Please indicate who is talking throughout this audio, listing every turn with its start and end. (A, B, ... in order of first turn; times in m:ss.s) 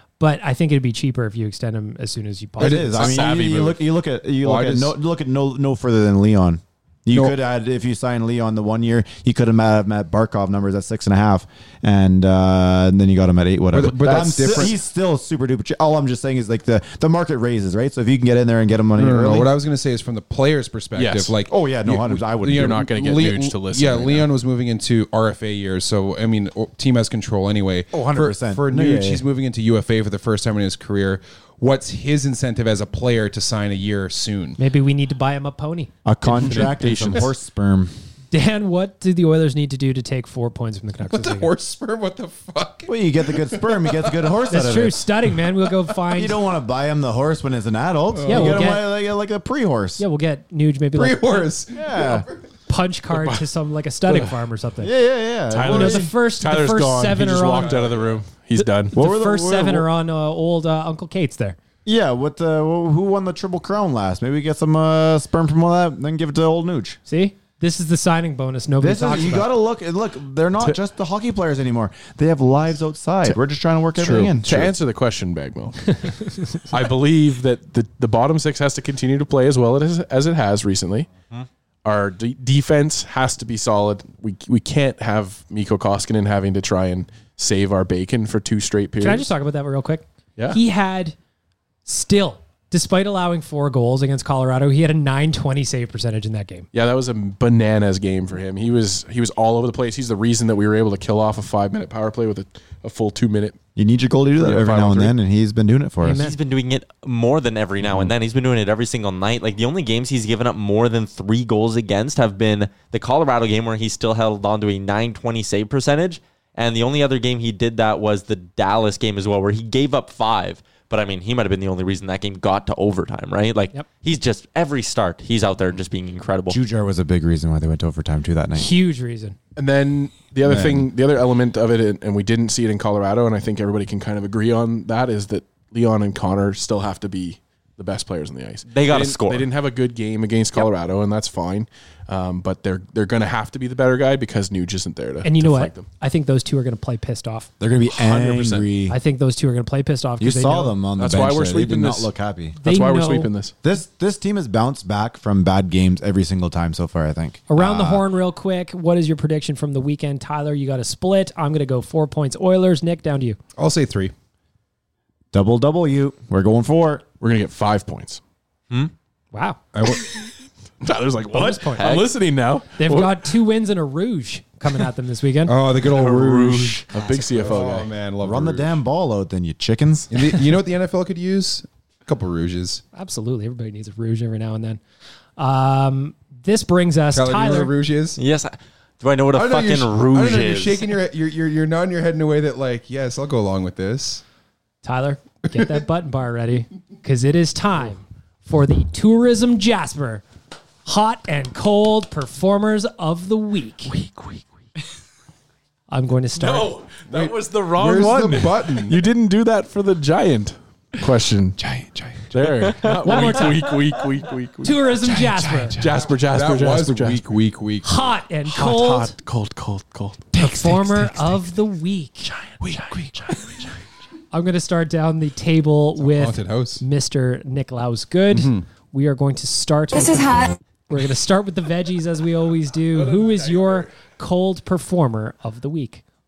0:00.2-0:03.0 A
0:02.6-0:19.5 B
0:02.6-0:03.4 C
0:02.9-0:03.8 D
0:04.4-0:04.9 C
0:07.1-0:07.4 C
0:13.7-0:14.8 C
0:18.9-0:34.6 C
0:21.0-0:21.3 D
0:21.5-0:22.8 B
0:22.4-0:24.3 D
0:27.9-0:29.2 B
0:34.6-0:35.9 A
0:36.0-0:37.9 B
0:36.3-0:37.3 D
0:38.3-0:41.5 A
0:41.1-0:44.4 C
0:42.9-0:45.1 B
0:44.5-0:46.4 A
0:46.1-0:50.0 B
0:48.1-0:48.7 C
0:48.3-0:48.9 A
0:50.0-0:51.5 A
0:50.9-0:52.3 C
0:51.7-0:52.3 B
0:52.7-0:54.9 A
0:53.1-0:53.4 D
0:54.8-0:56.1 B
0:55.5-0:59.0 D
0:55.6-0:57.8 A
0:57.5-0:58.2 C
0:58.6-1:01.6 A
0:58.9-0:59.9 B
1:01.8-1:07.0 B
1:07.1-1:09.5 A
1:08.8-1:14.7 B
1:14.0-1:21.1 D
1:21.8-1:29.3 D
1:29.0-1:31.2 A
1:31.8-1:36.7 A
1:36.7-1:43.6 D
1:43.8-1:46.2 B
1:44.4-1:45.1 D
1:46.0-1:46.4 A
1:46.1-2:06.6 E
2:06.5-2:08.7 B
2:08.5-2:09.4 A
2:09.6-2:25.9 D
2:10.4-2:10.8 B
2:18.7-2:19.5 E
2:25.2-2:27.5 A
2:27.6-2:29.0 B
2:27.8-2:28.7 D
2:28.9-2:30.8 A
2:30.2-2:32.6 B
2:31.0-2:33.5 D
2:32.6-2:33.3 A
2:33.6-2:38.0 B
2:37.5-2:43.4 A
2:43.6-2:44.1 C
2:45.3-2:47.0 B
2:47.2-2:48.2 D
2:49.3-2:49.6 A
2:49.7-2:50.1 C
2:50.8-2:53.3 D
2:51.3-2:51.9 A
2:51.8-2:52.1 E
2:52.8-2:55.5 A
2:55.4-2:58.8 C
2:55.9-2:57.9 D
2:56.1-2:56.7 E
2:58.2-3:00.1 B
3:00.1-3:02.8 C
3:02.9-3:04.8 A
3:05.4-3:07.7 A
3:07.1-3:08.2 C
3:08.2-3:10.9 E
3:09.3-3:14.2 C
3:14.8-3:20.2 A
3:15.5-3:15.8 C
3:20.8-3:23.9 A
3:24.0-3:24.3 D
3:25.9-3:26.7 A
3:26.4-3:31.6 D
3:27.1-3:29.0 C
3:31.6-3:32.3 C
3:32.3-3:37.3 D
3:33.0-3:33.7 A
3:34.6-3:35.8 A
3:35.8-3:38.1 C
3:37.8-3:39.2 A
3:38.5-3:41.3 D
3:40.4-3:42.3 A
3:42.6-3:43.6 D
3:42.8-3:43.2 C
3:44.3-3:56.0 A
3:46.0-3:46.8 C
3:48.3-3:48.7 C
3:53.2-3:53.8 D